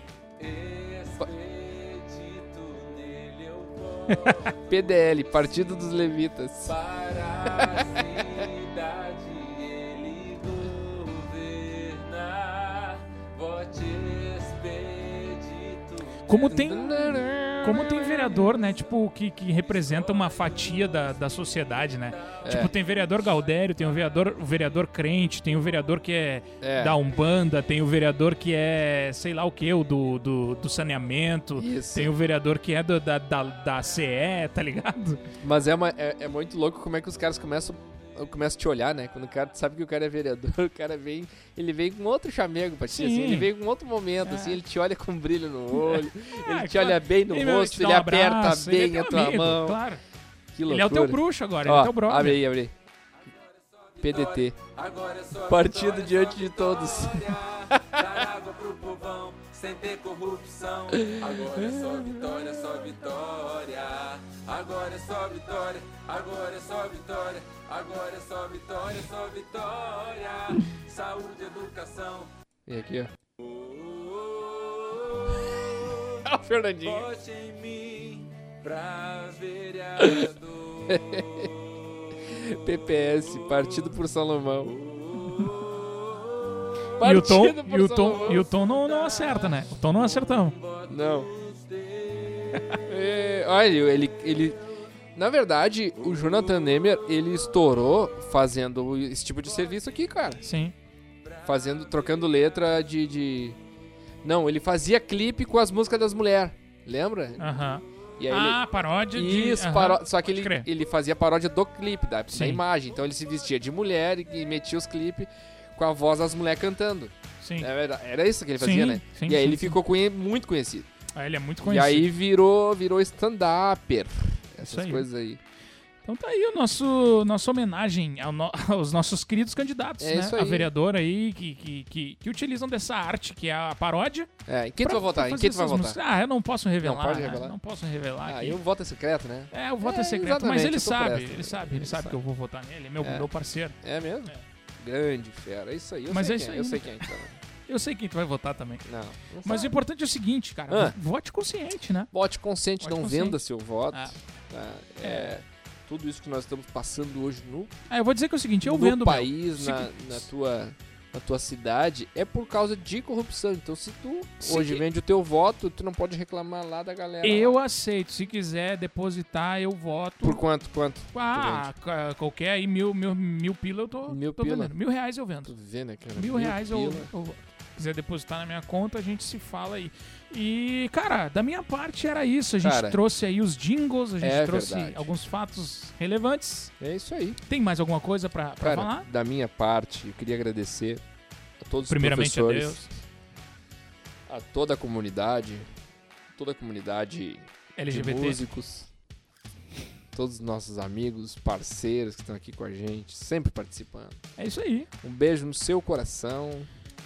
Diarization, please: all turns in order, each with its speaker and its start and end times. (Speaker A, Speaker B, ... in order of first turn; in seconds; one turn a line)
Speaker A: 0.4-6.0
Speaker B: 4.6-6.8
Speaker A: 6.6-16.6
Speaker B: 7.4-8.4
Speaker C: 16.3-17.1
Speaker B: 16.4-18.6
Speaker C: 17.6-35.2
Speaker A: 19.6-24.3
Speaker B: 22.4-22.7
Speaker B: 26.6-27.0
Speaker B: 31.6-32.1
Speaker B: 35.4-49.8
Speaker C: 42.9-43.5
Speaker C: 44.2-44.6
Speaker C: 45.7-50.0
Speaker B: 50.5-52.7
Speaker C: 50.7-52.4
Speaker A: 53.2-72.3
Speaker B: 54.0-54.5
Speaker B: 55.4-58.2
Speaker B: 60.9-62.0
Speaker B: 72.7-73.1
Speaker A: 73.4-76.3
Speaker B: 76.2-77.1
Speaker A: 76.8-81.5
Speaker B: 80.0-80.3
Speaker B: 80.9-81.5
Speaker B: 82.2-84.7
Speaker A: 84.6-86.8
Speaker B: 87.0-88.5
Speaker C: 87.0-90.6
Speaker A: 88.1-92.8
Speaker B: 90.9-91.3
Speaker B: 92.8-94.6
Speaker B: 95.1-100.4
Speaker A: 96.0-96.7
Speaker C: 100.4-100.7
Speaker A: 101.2-102.8
Speaker B: 101.4-103.6
Speaker B: 104.2-107.5
Speaker C: 107.4-110.7
Speaker B: 108.2-120.9
Speaker C: 112.3-112.6
Speaker C: 117.4-117.7
Speaker C: 118.6-119.8
Speaker C: 121.1-122.1
Speaker B: 121.6-125.4
Speaker C: 124.6-125.1
Speaker C: 126.0-134.3
Speaker B: 130.0-130.7
Speaker B: 134.5-136.0
Speaker C: 134.8-138.6
Speaker B: 136.8-137.6
Speaker B: 138.2-142.2
Speaker C: 139.5-144.4
Speaker B: 143.0-143.3
Speaker B: 143.8-147.4
Speaker C: 146.1-147.1
Speaker C: 147.7-148.8
Speaker B: 148.8-149.8
Speaker C: 149.4-152.1
Speaker B: 150.7-151.0
Speaker B: 152.1-157.7
Speaker C: 152.8-154.2
Speaker C: 155.0-155.4
Speaker C: 157.9-160.2
Speaker B: 158.6-167.6
Speaker C: 164.4-164.8
Speaker C: 167.2-170.4
Speaker B: 170.2-171.7
Speaker C: 171.1-175.5
Speaker B: 174.1-174.7
Speaker B: 175.4-177.1
Speaker C: 176.1-186.7
Speaker B: 182.6-183.0
Speaker B: 184.2-185.1
Speaker B: 186.8-187.4
Speaker C: 187.5-189.1
Speaker B: 188.6-191.0
Speaker B: 191.6-192.9
Speaker C: 191.9-192.9
Speaker B: 194.3-195.7
Speaker B: 196.3-198.9
Speaker C: 197.8-198.4
Speaker B: 200.1-204.2
Speaker C: 204.4-204.9
Speaker B: 205.0-206.7